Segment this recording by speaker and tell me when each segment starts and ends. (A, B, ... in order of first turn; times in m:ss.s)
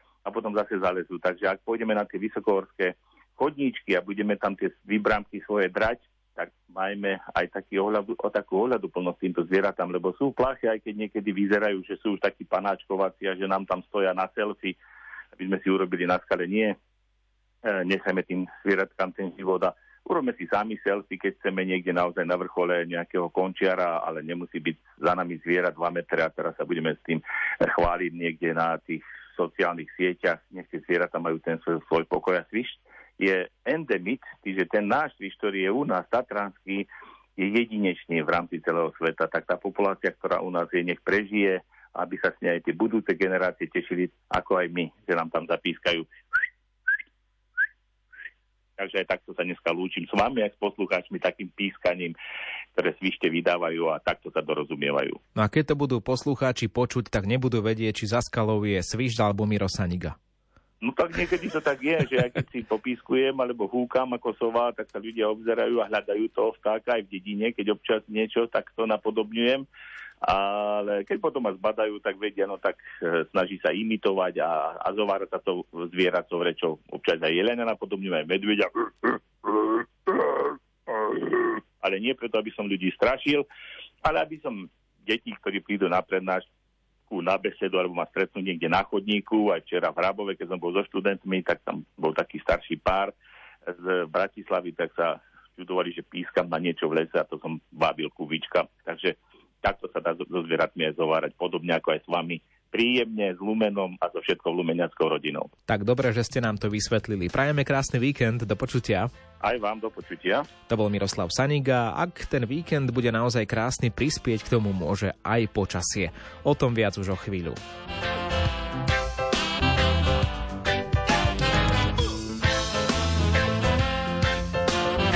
0:00.2-0:14.8 A
0:15.4-0:16.8 A
0:17.6-0:46.1 A
0:48.8-0:52.2 A
0:52.7-0:55.2 A
0:55.4-1:00.2 B
1:00.8-1:09.7 A
1:10.2-1:20.5 A
1:21.1-1:23.4 A
1:24.0-1:26.4 A
1:27.1-1:33.1 A
1:33.7-1:45.5 A
1:45.7-1:49.1 B
1:49.4-1:50.5 A
1:50.7-1:57.6 B